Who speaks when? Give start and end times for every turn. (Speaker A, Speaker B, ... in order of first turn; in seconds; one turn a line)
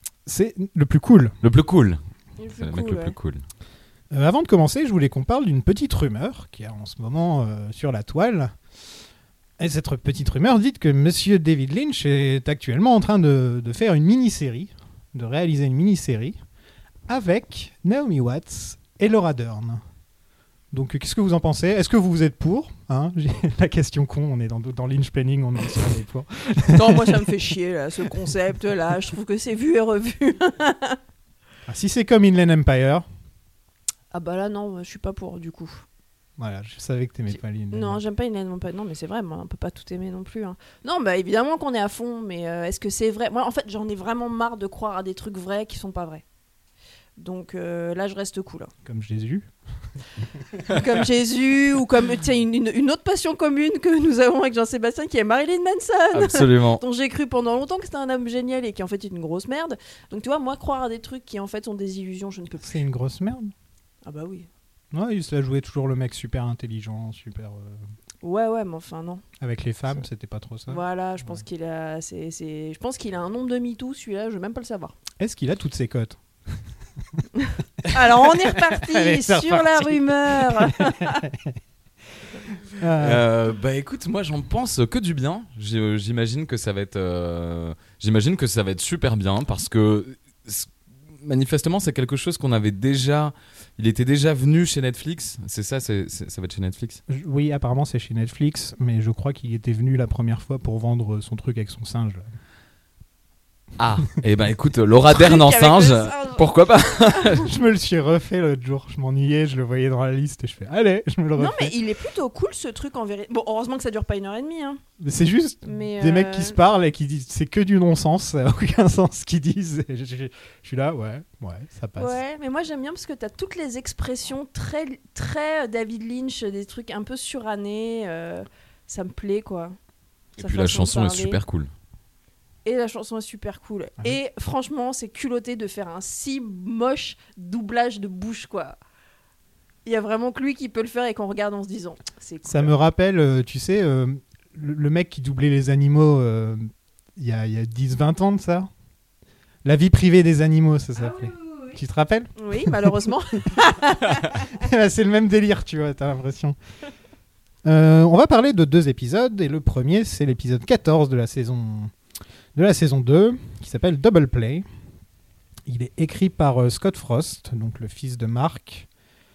Speaker A: 0.2-1.3
Speaker B: 1.4-2.0
Speaker C: 2.4-3.1
Speaker B: 2.6-3.4
Speaker A: 4.1-8.5
Speaker A: 9.6-16.4
Speaker A: 17.1-19.8
Speaker A: 20.7-27.2
Speaker C: 26.7-31.0
Speaker A: 31.6-33.0
Speaker C: 34.1-35.8
Speaker A: 36.4-38.0
Speaker C: 37.7-46.2
Speaker C: 47.2-48.7
Speaker A: 48.8-49.5
Speaker C: 50.7-62.8
Speaker B: 56.1-56.8
Speaker A: 62.6-63.5
Speaker C: 64.0-64.5
Speaker A: 64.9-67.8
Speaker C: 68.2-69.2
Speaker A: 69.4-71.4
Speaker C: 70.7-74.9
Speaker A: 75.2-76.6
Speaker C: 77.4-81.2
Speaker A: 77.9-81.5
Speaker A: 82.8-83.2
Speaker B: 83.0-90.7
Speaker B: 91.2-97.0
Speaker A: 97.1-102.3
Speaker B: 103.8-107.4
Speaker C: 105.1-106.4
Speaker A: 107.3-111.7
Speaker C: 111.3-114.8
Speaker A: 115.0-122.2
Speaker C: 115.7-116.6
Speaker C: 122.0-129.8
Speaker B: 130.4-131.7
Speaker C: 130.4-131.4
Speaker C: 132.6-138.8
Speaker C: 139.8-142.7
Speaker A: 142.4-148.7
Speaker A: 149.6-153.6
Speaker C: 150.9-151.8
Speaker C: 152.4-154.4
Speaker A: 154.3-156.6
Speaker A: 157.6-161.9
Speaker A: 162.5-164.6
Speaker A: 165.7-168.9